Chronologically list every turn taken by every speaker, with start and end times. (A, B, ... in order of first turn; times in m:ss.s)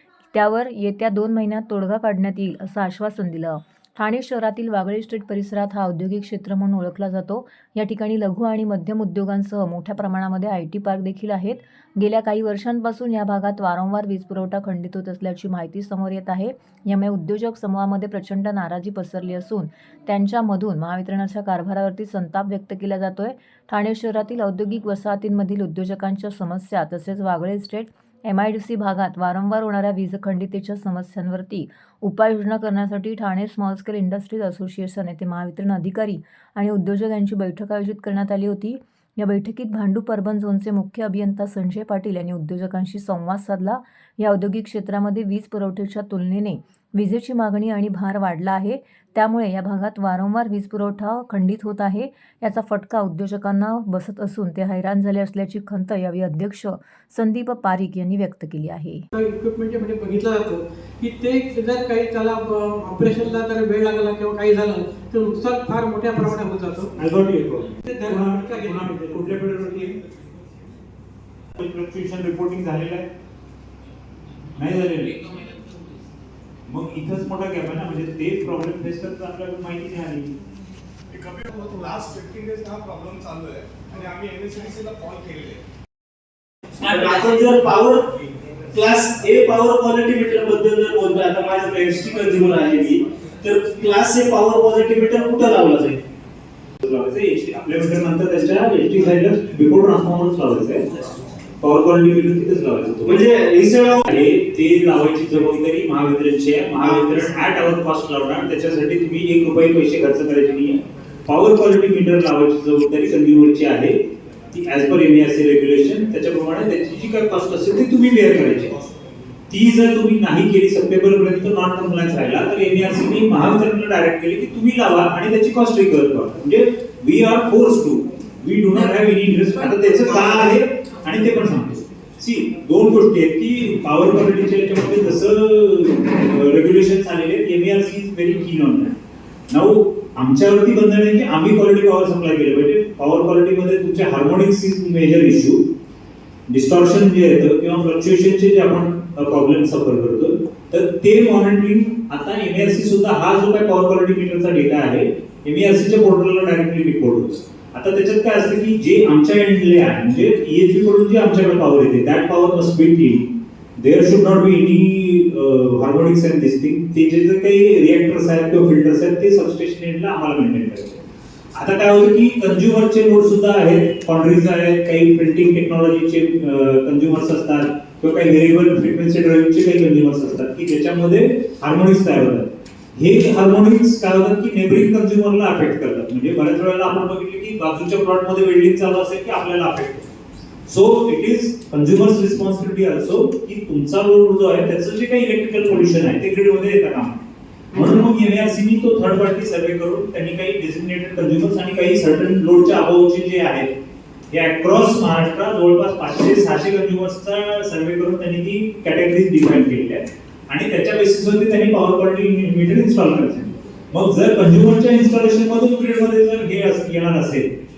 0:00.3-0:59.1 A
0:59.1-1:06.9 B
1:07.0-1:10.0 C
1:07.8-1:09.9 B
1:11.6-1:13.1 C
1:14.6-1:15.3 C
1:16.7-1:20.4 C
1:21.2-1:25.6 D
1:26.8-1:28.1 E
1:28.7-1:36.0 E
1:36.8-1:40.9 C
1:41.6-1:43.2 C
1:43.0-1:44.0 E
1:44.0-1:54.0 C
1:46.8-1:47.2 E
1:54.5-1:58.8 C
1:59.5-2:19.0 C
2:19.5-2:25.6 C
2:26.5-2:51.0 C
2:51.6-3:10.1 C
3:10.7-3:17.2 C
3:17.8-3:23.7 C
3:24.3-3:37.6 C